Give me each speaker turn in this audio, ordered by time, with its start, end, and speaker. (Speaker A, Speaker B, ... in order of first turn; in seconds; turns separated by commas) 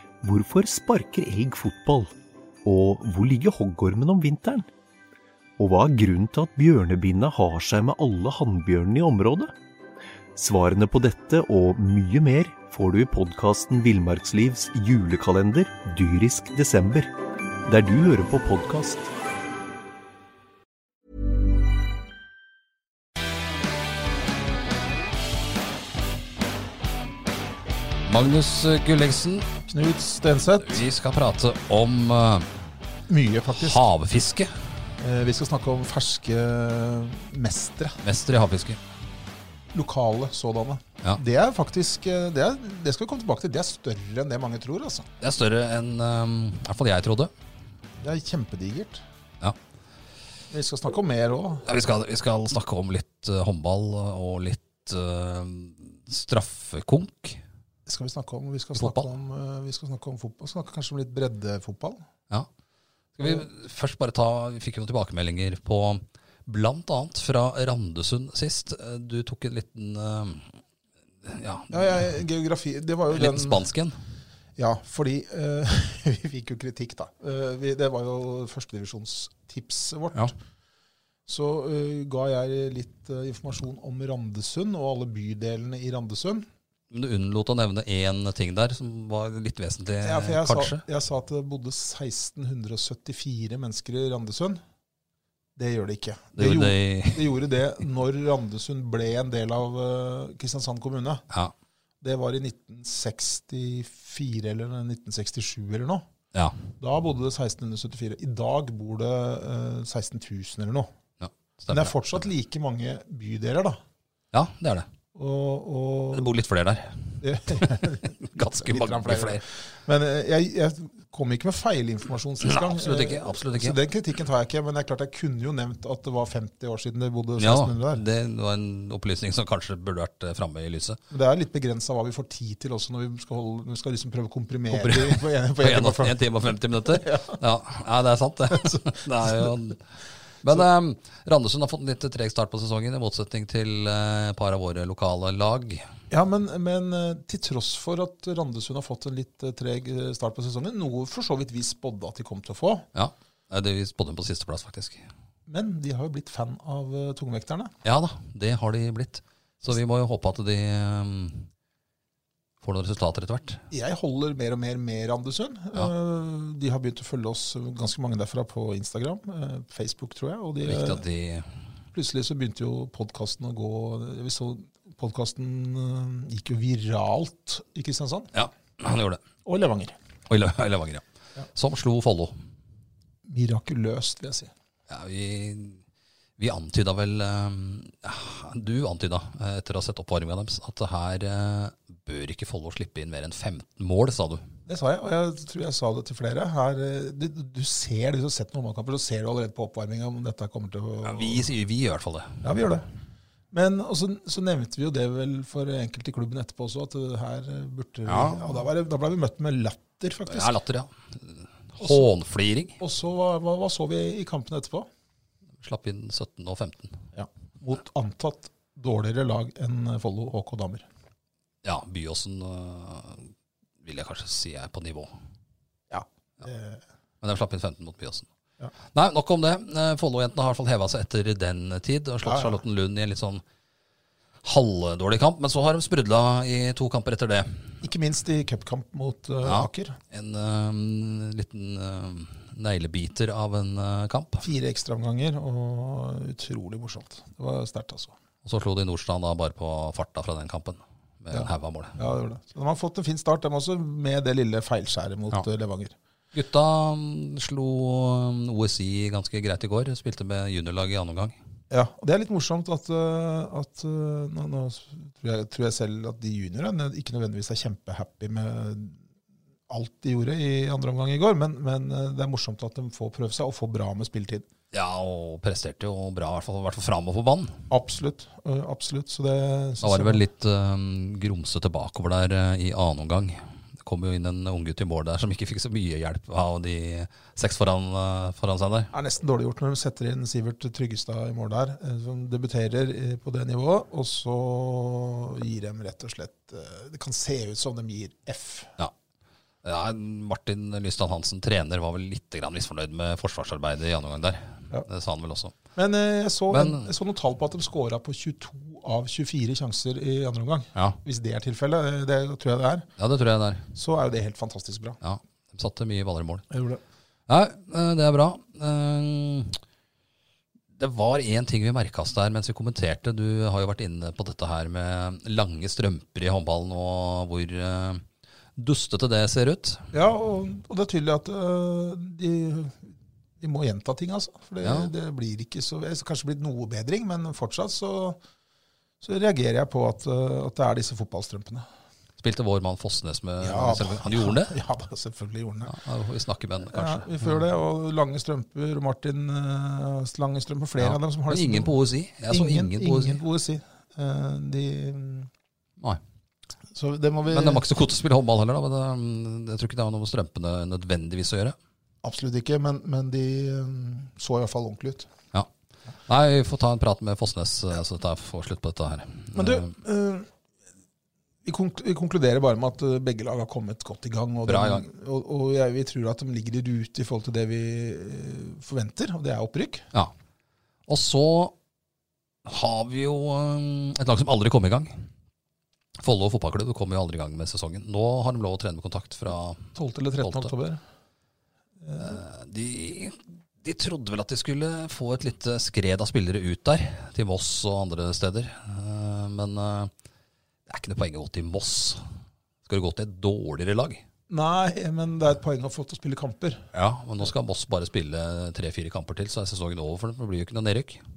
Speaker A: 0.2-2.1, Speaker A: 2.6-4.7, Speaker A: 5.6-9.5, Speaker A: 10.4-17.1, Speaker A: 17.7-19.1, Speaker B: 28.1-29.5, Speaker C: 29.7-30.9, Speaker B: 30.6-32.5, Speaker C: 33.1-33.8, Speaker B: 33.5-34.5, Speaker C: 35.0-38.0, Speaker B: 38.0-38.8, Speaker C: 39.7-45.1, Speaker B: 45.2-47.3, Speaker C: 48.0-49.0, Speaker C: 50.5-51.7, Speaker B: 51.7-57.4, Speaker C: 57.9-62.0, Speaker B: 58.8-59.1, Speaker B: 63.2-70.5, Speaker B: 71.2-72.0, Speaker C: 71.7-73.7, Speaker B: 73.1-73.9, Speaker C: 74.6-80.3, Speaker C: 81.3-86.5, Speaker B: 86.9-90.8, Speaker C: 90.0-94.6, Speaker C: 95.6-101.2, Speaker B: 96.4-97.3, Speaker C: 102.0-106.0, Speaker C: 106.8-110.9, Speaker B: 111.2-112.1, Speaker C: 111.7-113.8, Speaker B: 114.3-114.9, Speaker C: 115.2-116.3, Speaker B: 116.1-119.4, Speaker C: 117.2-128.1, Speaker B: 122.4-123.8, Speaker B: 127.4-131.0, Speaker C: 131.1-136.2, Speaker B: 134.7-139.8, Speaker C: 136.8-137.4, Speaker C: 138.5-139.5, Speaker B: 140.4-145.8, Speaker C: 146.1-152.9, Speaker B: 152.9-155.0, Speaker C: 155.5-157.7, Speaker B: 157.8-161.5, Speaker B: 162.6-163.6, Speaker C: 163.7-171.0, Speaker B: 170.6-171.5, Speaker C: 171.9-178.3, Speaker B: 178.3-179.2, Speaker C: 179.4-179.9, Speaker B: 180.3-181.0, Speaker B: 181.6-182.3, Speaker C: 183.3-184.5, Speaker B: 184.9-185.8, Speaker B: 186.4-194.4, Speaker C: 194.7-201.5, Speaker B: 201.0-202.4, Speaker C: 202.4-202.9, Speaker C: 203.5-210.5, Speaker B: 208.1-208.6, Speaker B: 210.3-212.8, Speaker C: 211.8-212.1, Speaker C: 212.8-214.9, Speaker B: 215.6-217.0, Speaker C: 217.1-220.9, Speaker B: 221.6-223.3, Speaker B: 223.8-225.1, Speaker C: 225.9-226.8, Speaker B: 227.2-228.3, Speaker B: 228.9-233.4, Speaker C: 232.2-232.6, Speaker B: 234.4-237.7, Speaker C: 237.8-240.0, Speaker B: 239.4-244.5, Speaker C: 244.4-248.2, Speaker B: 248.4-252.0, Speaker C: 251.3-255.9, Speaker B: 256.3-261.4, Speaker C: 261.7-269.0, Speaker C: 269.7-274.5, Speaker B: 274.7-277.6, Speaker C: 277.7-280.2, Speaker B: 279.8-288.9, Speaker C: 288.9-298.7, Speaker B: 299.6-305.5, Speaker C: 305.8-312.9, Speaker B: 306.5-306.9, Speaker B: 313.0-313.7, Speaker C: 313.8-315.0, Speaker B: 315.0-316.5, Speaker C: 316.5-316.8, Speaker B: 317.3-319.6, Speaker B: 320.8-328.0, Speaker B: 328.6-329.9, Speaker C: 329.9-338.2, Speaker B: 334.6-334.9, Speaker C: 339.0-341.7, Speaker B: 342.2-344.5, Speaker C: 343.4-345.7, Speaker B: 345.7-347.3, Speaker C: 346.7-351.7, Speaker B: 350.8-353.2, Speaker C: 352.3-355.3, Speaker C: 356.7-357.6, Speaker B: 357.3-361.6, Speaker C: 362.0-365.1, Speaker B: 366.1-369.7, Speaker C: 369.3-370.3, Speaker C: 371.4-379.9, Speaker B: 374.5-374.8, Speaker B: 380.9-381.5, Speaker B: 382.4-385.0, Speaker B: 386.0-390.5, Speaker C: 389.8-390.8, Speaker C: 391.8-392.2, Speaker B: 392.0-399.9, Speaker B: 400.7-402.0, Speaker B: 402.6-404.0, Speaker C: 404.3-406.7, Speaker B: 406.7-411.0